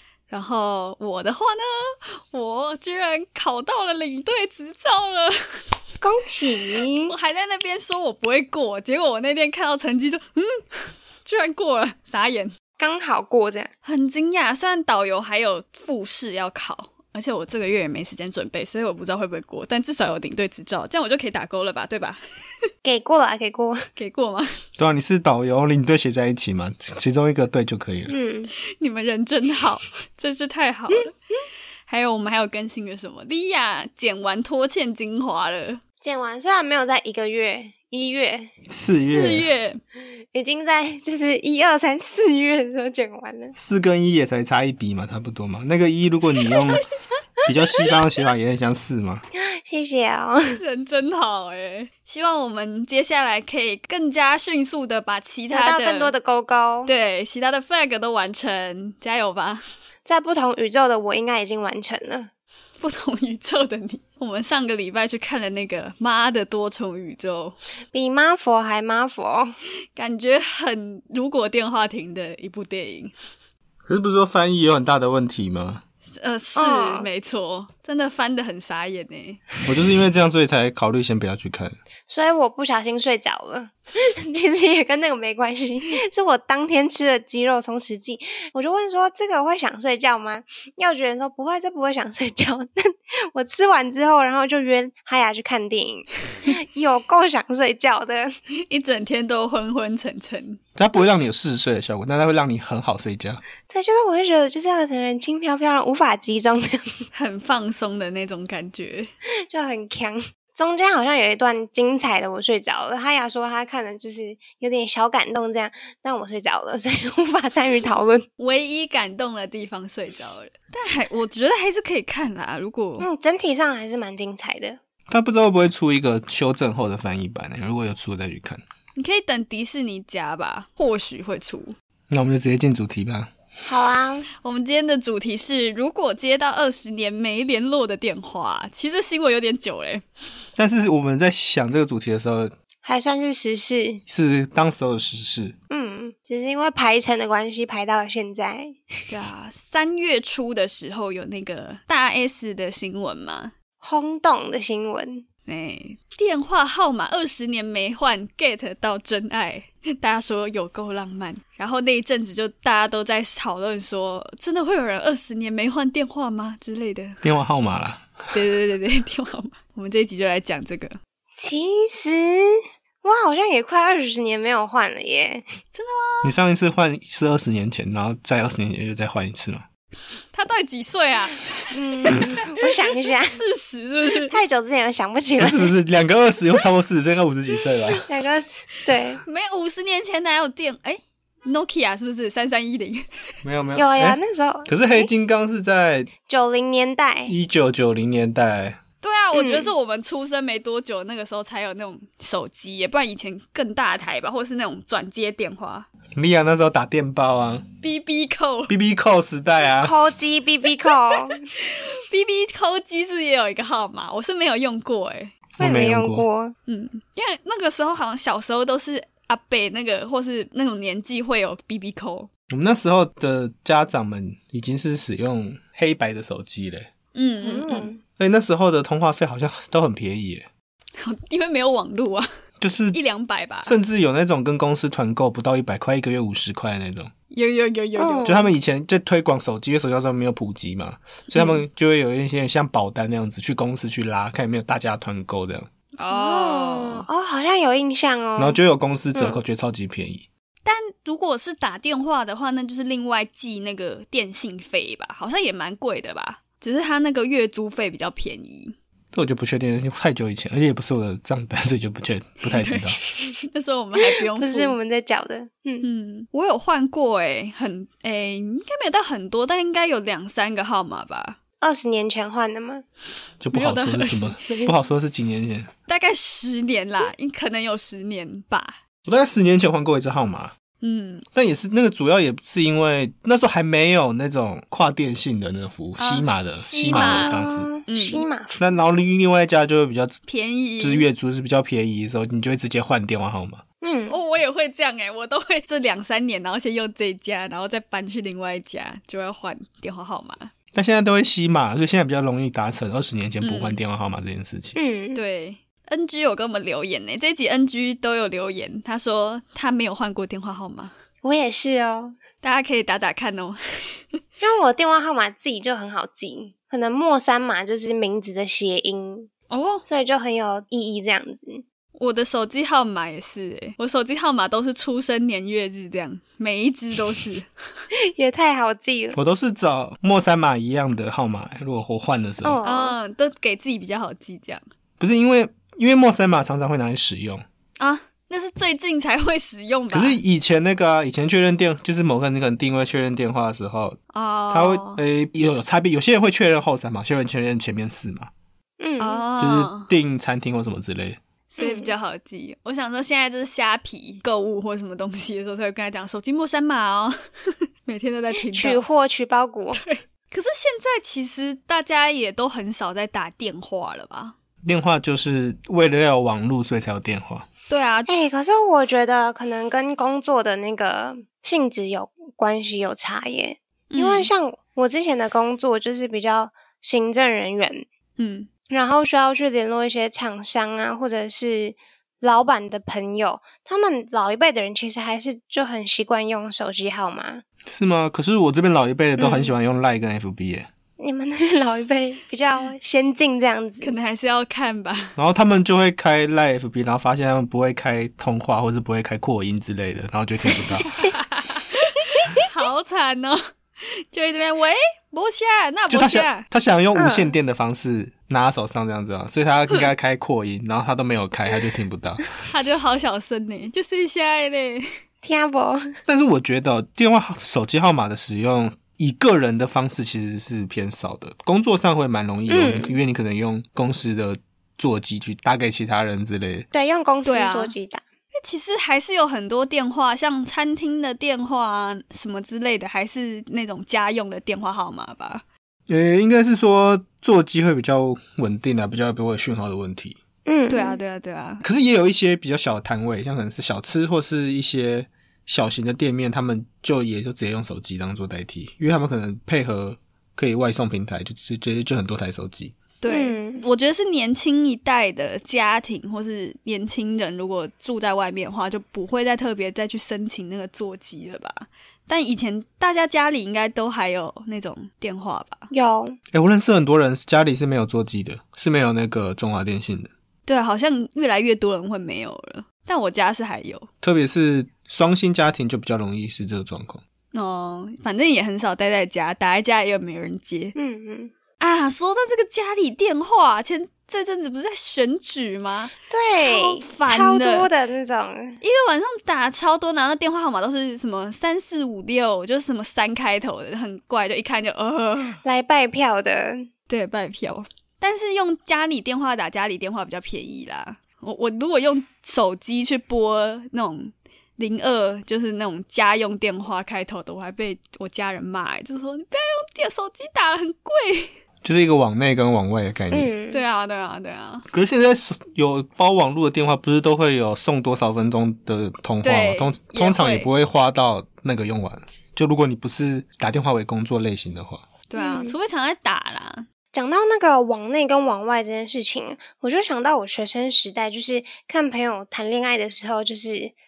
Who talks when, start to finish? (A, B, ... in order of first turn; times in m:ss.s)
0:00.3-0:05.4 A
0:06.0-0:07.1 B
0:07.0-0:12.5 A
0:12.8-0:13.7 B
0:13.8-0:22.2 A
0:22.8-0:23.9 B
0:24.0-0:24.5 A
0:24.8-0:28.1 C
0:28.1-0:28.5 B
0:28.8-0:31.1 A
0:31.9-0:35.8 A
0:36.0-0:38.5 B
0:38.7-0:39.5 C
0:38.9-0:39.8 A
0:40.3-0:43.5 B
0:43.6-0:46.8 C
0:47.4-0:49.2 C
0:49.3-0:50.5 B
0:50.6-0:56.1 A
0:55.5-0:56.9 B
0:56.9-0:59.6 A
1:00.1-1:02.3 B
1:02.8-1:07.6 A
1:07.9-1:09.5 B
1:10.0-1:13.1 A
1:13.8-1:15.8 C
1:16.1-1:19.4 A
1:16.6-1:17.1 B
1:19.6-1:21.8 C
1:22.1-1:38.3 B
1:38.7-1:40.6 A
1:40.8-1:43.4 C
1:43.7-1:47.0 B
1:47.1-1:49.1 A
1:49.5-1:58.3 B
1:58.4-2:03.1 A
2:03.0-2:04.8 B
2:05.1-2:08.6 C
2:08.9-2:11.8 A
2:12.1-2:13.3 C
2:13.6-2:14.2 B
2:14.4-2:20.0 A
2:20.6-2:22.5 C
2:22.8-2:24.0 B
2:24.1-2:25.6 C
2:25.7-2:28.8 B
2:29.1-2:33.5 A
2:33.8-2:35.2 B
2:35.5-2:47.2 A
2:47.2-2:48.1 C
2:48.3-2:51.0 A
2:51.4-2:55.5 B
2:55.7-2:56.3 A
2:56.2-2:59.6 C
3:00.3-3:01.4 A
3:01.7-3:03.4 B
3:02.0-3:02.7 A
3:03.2-3:04.3 A
3:04.3-3:05.7 B
3:05.4-3:08.0 C
3:08.0-3:09.2 B
3:09.2-3:13.1 A
3:13.4-3:16.1 C
3:13.8-3:15.1 B
3:16.3-3:17.3 B
3:17.3-3:18.8 C
3:19.0-3:25.9 A
3:19.3-3:19.7 B
3:26.1-3:27.6 C
3:27.8-3:28.7 A
3:28.7-3:29.9 C
3:29.8-3:31.4 B
3:31.6-3:35.3 A
3:35.6-3:36.2 C
3:35.6-3:36.5 B
3:36.7-3:42.3 A
3:42.5-3:46.9 C
3:47.1-3:47.9 A
3:47.4-3:48.0 B
3:48.2-3:50.5 C
3:51.0-3:52.3 A
3:52.6-3:53.0 C
3:52.9-3:53.7 A
3:53.6-3:57.1 C
3:57.3-3:58.4 A
3:58.0-3:58.5 B
3:58.2-4:05.7 C
4:06.0-4:07.1 A
4:06.1-4:08.6 B
4:08.4-4:10.2 C
4:09.1-4:09.4 B
4:10.6-4:18.8 A
4:19.1-4:23.0 C
4:22.5-4:24.8 A
4:24.1-4:25.8 B
4:25.8-4:31.4 A
4:31.6-4:32.8 B
4:33.4-4:35.7 C
4:33.5-4:34.4 A
4:34.5-4:34.8 B
4:35.9-4:38.8 A
4:39.0-4:40.5 C
4:40.8-4:41.2 A
4:41.3-4:47.7 C
4:46.0-4:48.2 A
4:46.9-4:48.6 B
4:48.6-4:50.2 C
4:50.3-4:51.0 A
4:50.8-4:53.6 C
4:53.8-4:54.2 B
4:54.1-5:00.5 A
5:00.7-5:04.8 C
5:03.4-5:03.8 A
5:04.8-5:05.2 B
5:05.1-5:10.9 A
5:11.2-5:12.2 B
5:12.4-5:13.6 A
5:14.4-5:19.3 B
5:19.5-5:19.8 A
5:19.8-5:21.6 B
5:22.0-5:27.5 A
5:28.1-5:29.2 B
5:29.1-5:32.6 C
5:32.4-5:33.0 B
5:32.6-5:34.6 A
5:35.0-5:37.4 C
5:37.8-5:40.2 A
5:39.9-5:44.0 C
5:44.1-5:45.0 A
5:44.5-5:48.3 C
5:48.8-5:49.2 B
5:49.0-5:49.9 A
5:49.4-5:51.2 C
5:51.5-5:57.2 A
5:51.6-5:51.9 B
5:57.8-5:58.8 A
5:58.5-5:59.8 B
5:59.8-6:04.4 A
6:04.6-6:07.5 C
6:07.7-6:08.1 A
6:08.1-6:17.9 B
6:13.9-6:14.3 A
6:18.2-6:18.5 A
6:18.7-6:27.4 B
6:27.6-6:30.7 C
6:29.2-6:29.5 B
6:31.0-6:34.0 B
6:33.8-6:35.2 A
6:35.2-6:40.9 C
6:40.9-6:43.4 A
6:44.1-6:46.5 A
6:45.9-6:52.2 C
6:46.9-6:47.4 B
6:52.5-6:54.9 A
6:55.2-6:55.9 B
6:56.1-7:06.6 C
7:02.5-7:03.0 B
7:06.7-7:08.0 B
7:07.2-7:07.7 A
7:08.4-7:15.4 A
7:15.9-7:20.2 C
7:20.5-7:21.0 B
7:20.7-7:21.6 A
7:21.6-7:32.8 C
7:33.0-7:45.7 A
7:33.1-7:33.6 B
7:45.7-7:46.2 B
7:46.3-7:50.1 C
7:50.5-7:53.9 A
7:54.0-7:57.0 C
7:57.3-8:00.7 A
8:00.8-8:01.3 B
8:01.6-8:07.7 A
8:06.1-8:08.6 B
8:08.6-8:15.4 A
8:15.4-8:16.7 B
8:16.9-8:31.3 A
8:31.6-8:33.3 C
8:33.1-8:33.6 B
8:33.5-8:34.6 A
8:34.7-8:44.9 C
8:39.2-8:40.5 A
8:45.1-8:46.7 A
8:45.2-8:45.5 B
8:46.9-8:53.8 B